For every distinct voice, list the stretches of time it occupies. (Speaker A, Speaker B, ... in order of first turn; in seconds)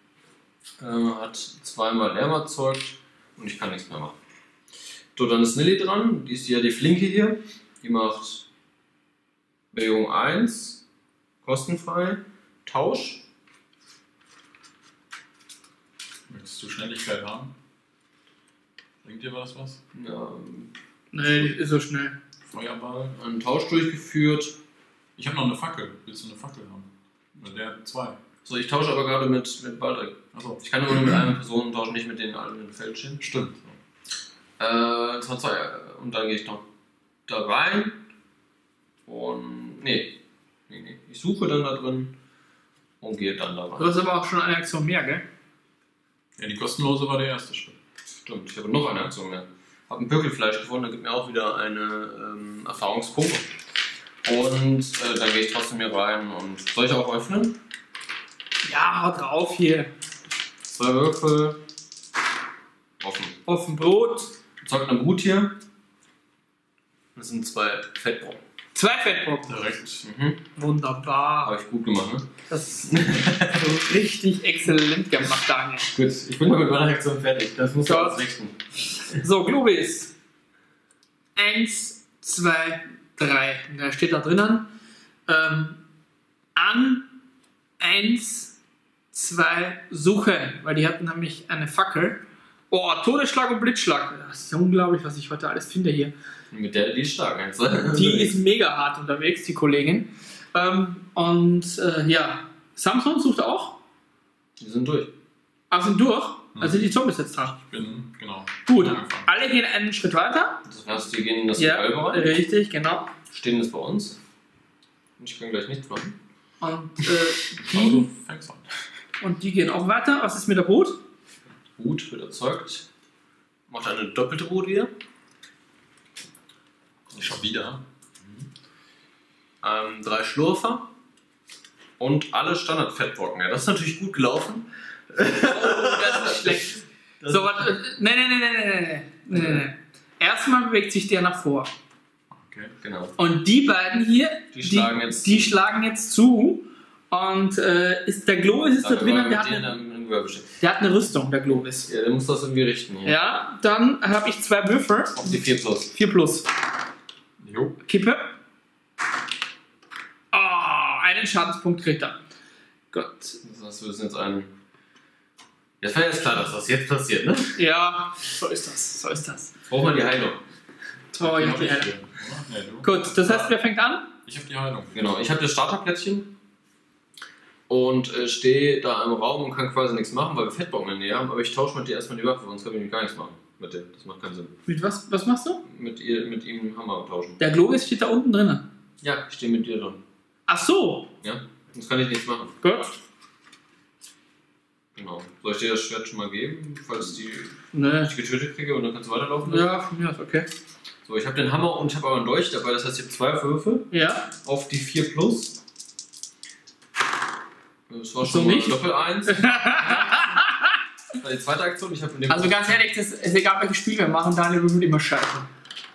Speaker A: 0.8-4.2, 5.2-8.4, 9.7-10.8, 11.4-13.2, 19.9-20.7, 23.1-24.6, 28.4-33.3, 34.6-36.6, 37.3-38.0, 39.1-40.1, 40.7-42.1, 43.0-44.0, 48.2-53.5, 54.2-57.6, 60.7-61.6, 63.0-63.4, 64.6-65.6, 67.1-68.4, 70.0-70.4, 71.4-73.7, 75.9-78.6, 96.5-98.4, 104.6-105.1, 110.7-112.3, 113.3-114.2, 115.2-116.2, 121.8-122.9, 123.7-124.9, 129.6-130.9, 132.0-137.6, 139.3-139.6, 142.8-143.2, 144.5-145.5, 148.8-150.6, 151.6-153.2, 155.2-155.9, 163.4-164.5, 165.8-167.6, 169.7-170.4, 174.9-176.3, 177.7-184.5, 185.7-187.4, 189.0-190.0, 191.2-192.5, 194.9-199.7, 201.0-205.6, 207.9-210.5, 211.2-212.8
Speaker B: 16.3-17.5, 19.0-19.8, 21.2-21.5, 22.5-23.1, 25.2-28.2, 30.3-30.6, 33.2-33.6, 46.4-47.8, 69.5-70.0, 106.6-106.8, 107.6-109.3, 117.6-118.8, 127.2-127.8, 142.3-142.7, 157.4-157.8, 171.2-173.6, 174.2-174.9
Speaker C: 21.1-22.1, 43.8-45.2, 58.6-59.9, 63.5-64.3, 68.7-69.5, 70.6-71.5, 72.5-72.9, 73.5-75.9, 77.8-78.2, 79.1-80.1, 81.4-84.7, 85.3-85.8, 86.5-87.1, 87.8-88.5, 89.1-96.1, 97.9-103.8, 105.7-107.6, 108.7-110.6, 111.6-113.1, 116.6-118.1, 119.2-121.0, 135.3-141.7, 143.2-149.7, 150.6-151.9, 153.1-156.4, 157.8-158.3, 160.3-162.2, 162.9-163.4, 167.6-169.5, 171.1-171.9, 172.8-174.1, 184.7-185.6, 187.4-188.6, 190.5-191.1, 192.6-193.0, 197.7-198.1, 199.4-200.5, 203.9-204.3, 208.2-210.7, 212.3-215.5